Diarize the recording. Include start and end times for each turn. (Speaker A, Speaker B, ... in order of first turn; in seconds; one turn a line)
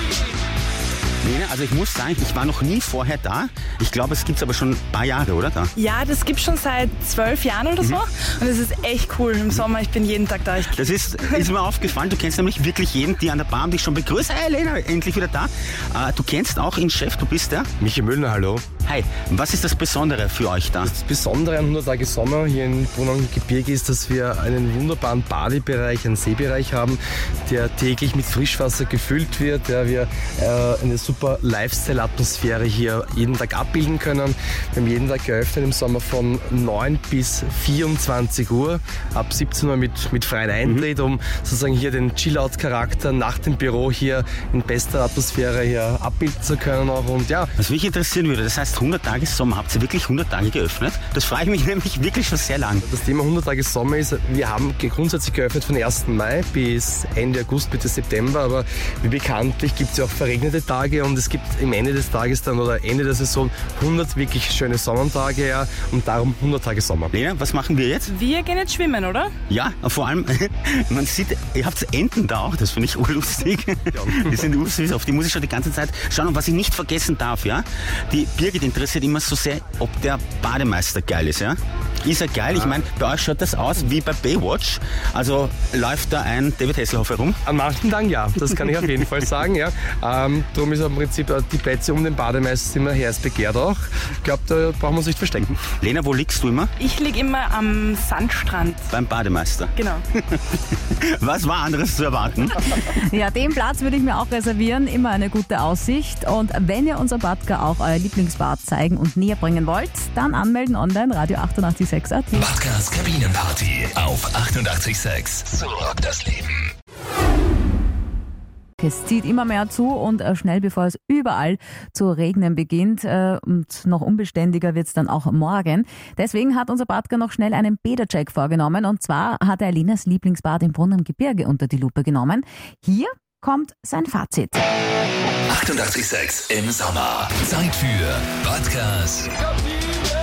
Speaker A: 1.2-5.7
Speaker B: 5.8-11.5
Speaker A: 10.7-17.7
Speaker C: 17.8-18.6
Speaker A: 18.9-20.9
Speaker C: 20.9-47.5
Speaker A: 47.6-52.8
Speaker C: 52.9-67.1
Speaker A: 67.1-68.1
Speaker B: 68.1-69.3
Speaker A: 69.5-87.4
Speaker C: 82.5-82.8
Speaker C: 87.5-95.5
Speaker A: 95.8-96.7
Speaker B: 96.8-98.9
Speaker A: 98.9-102.8
Speaker B: 99.8-100.0
Speaker D: 102.9-112.5
Speaker E: 112.3-116.7
Speaker D: 118.8-134.6
Speaker E: 135.5-139.3